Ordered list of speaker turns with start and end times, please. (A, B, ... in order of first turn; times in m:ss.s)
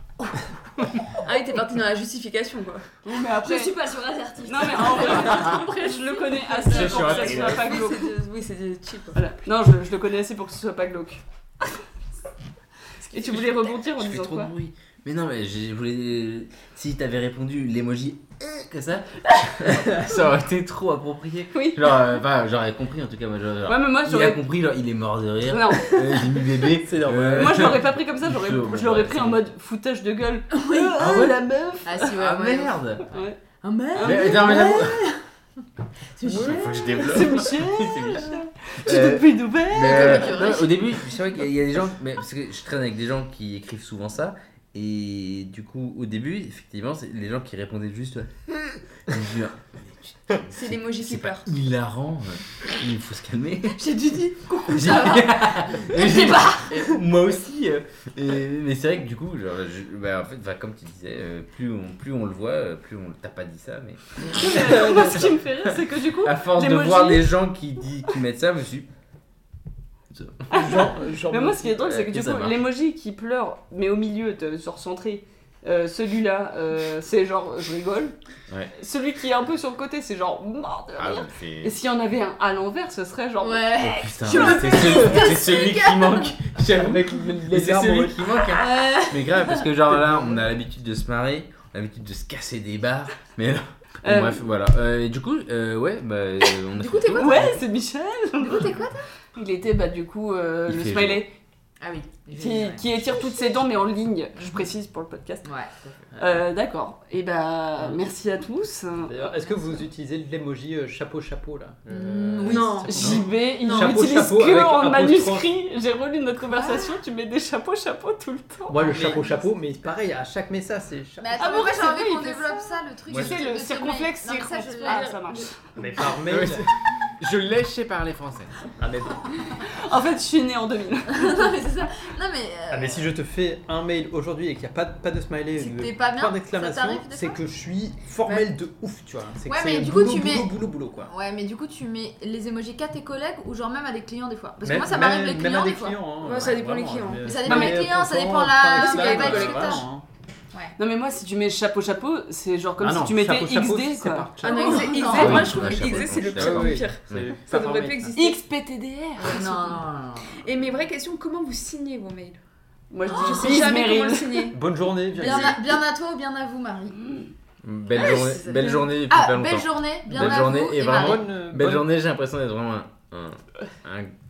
0:00.8-0:01.0 A
0:01.2-0:09.2 B
0:03.0-0:03.8 C
0:03.4-0:07.4 D
0:04.4-0:08.2 C
0:06.6-0:07.7 A
0:09.1-0:11.2 C
0:13.0-0:14.5 C
0:13.9-0:29.4 A
0:21.5-0:22.0 C
0:23.6-0:24.4 C
0:25.5-0:26.3 C
0:26.8-0:27.8 E
0:27.3-0:32.1 C
0:30.5-0:35.2 D
0:31.0-0:31.4 A
0:32.1-0:33.0 A
0:33.1-0:33.4 C
0:33.9-0:34.8 C
0:34.0-0:35.1 A
0:36.2-0:37.2 D
0:36.2-0:54.1 A
0:36.3-0:36.7 E
0:36.9-0:40.4 C
0:39.7-0:40.9 D
0:50.5-0:51.5 B
0:53.8-0:55.2 B
0:53.9-0:57.0 D
0:54.6-1:08.9 A
1:04.2-1:07.4 C
1:10.1-1:10.5 A
1:10.5-1:11.8 E
1:10.5-1:18.1 C
1:11.8-1:12.6 A
1:18.7-1:23.7 C
1:21.0-1:21.8 A
1:23.4-1:26.6 D
1:23.8-1:37.6 A
1:26.8-1:28.3 E
1:28.4-1:29.8 D
1:29.9-1:30.4 E
1:34.0-1:34.4 C
1:36.8-1:37.5 B
1:37.1-1:38.8 C
1:38.4-1:39.1 D
1:39.3-1:41.3 C
1:40.7-1:41.2 A
1:41.8-1:43.6 D
1:42.3-1:45.5 C
1:45.4-1:46.1 D
1:46.2-1:49.3 C
1:49.0-1:55.5 E
1:49.4-1:49.7 D
1:51.9-1:53.1 D
1:52.4-1:54.1 B
1:52.9-1:59.2 C
1:56.5-1:57.0 D
1:58.7-2:01.5 E
1:58.8-1:59.4 D
2:01.2-2:05.5 D
2:01.4-2:05.6 C
2:03.1-2:03.4 A
2:04.8-2:05.5 B
2:05.7-2:06.7 E
2:06.2-2:08.6 A
2:08.8-2:09.2 E
2:09.6-2:11.5 C
2:11.1-2:13.1 D
2:12.7-2:21.1 E
2:15.6-2:17.4 D
2:19.5-2:26.0 D
2:24.6-2:30.0 E
2:26.2-2:27.5 B
2:27.2-2:29.9 D
2:27.4-2:27.8 C
2:28.7-2:29.8 B
2:30.8-2:34.3 C
2:32.8-2:35.5 E
2:34.4-2:42.4 B
2:34.4-2:36.3 D
2:35.1-2:37.3 A
2:36.3-2:38.2 E
2:38.1-2:38.4 C
2:39.2-2:40.4 D
2:42.9-2:44.5 C
2:43.0-2:43.6 D
2:43.1-2:45.6 B
2:44.5-2:45.6 E
2:45.2-2:47.1 D
2:47.6-2:54.1 A
2:47.9-2:51.2 D
2:48.0-2:48.4 B
2:50.2-2:51.9 E